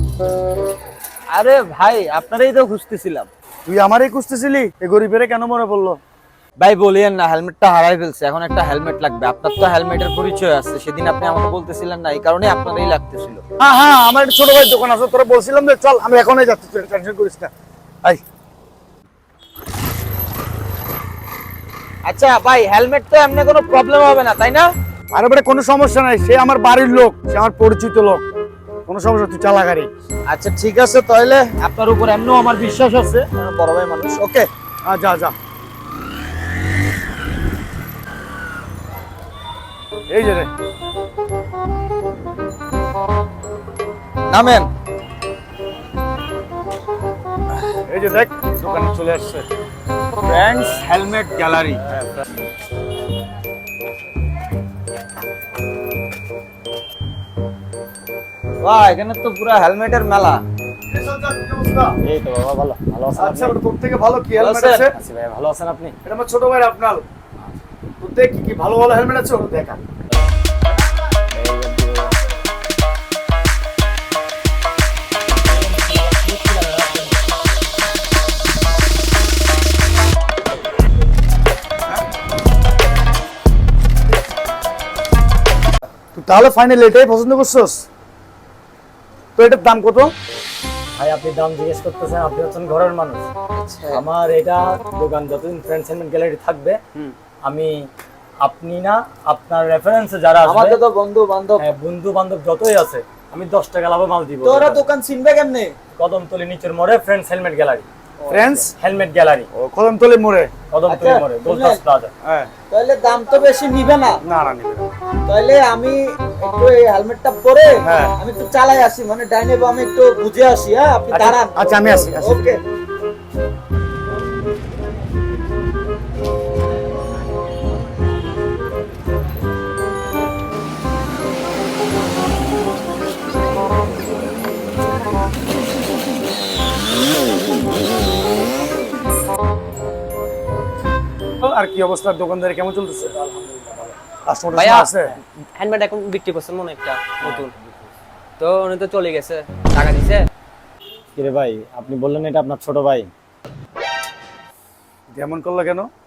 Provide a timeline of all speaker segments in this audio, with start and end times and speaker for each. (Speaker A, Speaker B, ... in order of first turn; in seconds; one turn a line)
Speaker A: 1.3-3.3
Speaker B: 3.6-6.0
Speaker A: 6.6-13.4
Speaker B: 13.6-17.5
Speaker A: 22.0-24.7
Speaker B: 25.1-28.2
Speaker B: 28.9-29.9
Speaker A: 30.3-34.5
Speaker B: 34.8-35.4
Speaker B: 40.1-40.5
Speaker A: 44.3-44.7
Speaker B: 47.8-49.5
Speaker A: 50.2-52.0
Speaker A: 58.6-60.4
Speaker B: 60.9-62.0
Speaker C: 62.0-63.5
Speaker B: 63.2-64.9
Speaker A: 64.3-64.8
Speaker C: 64.9-65.9
Speaker B: 66.0-67.0
Speaker B: 68.0-69.8
Speaker C: 71.3-72.2
Speaker C: 75.4-77.2
Speaker B: 86.1-87.8
Speaker B: 89.3-90.1
Speaker C: 91.0-93.2
Speaker A: 93.5-94.0
Speaker C: 93.9-96.8
Speaker C: 97.4-97.7
Speaker C: 98.4-100.8
Speaker A: 100.4-101.7
Speaker C: 101.6-104.9
Speaker A: 104.4-105.7
Speaker C: 105.9-107.8
Speaker B: 108.3-108.7
Speaker C: 108.8-109.5
Speaker B: 109.5-110.5
Speaker C: 110.7-112.1
Speaker A: 110.9-111.8
Speaker B: 112.2-112.5
Speaker A: 112.7-114.2
Speaker B: 114.2-114.9
Speaker A: 115.3-122.6
Speaker B: 117.8-118.1
Speaker B: 121.1-122.5
Speaker B: 141.4-143.1
Speaker C: 143.2-143.9
Speaker B: 144.2-145.2
Speaker D: 144.5-144.9
Speaker D: 145.6-147.5
Speaker D: 148.4-150.1
Speaker A: 148.4-148.8
Speaker A: 149.6-150.2
Speaker C: 151.1-153.1
Speaker B: 155.1-155.9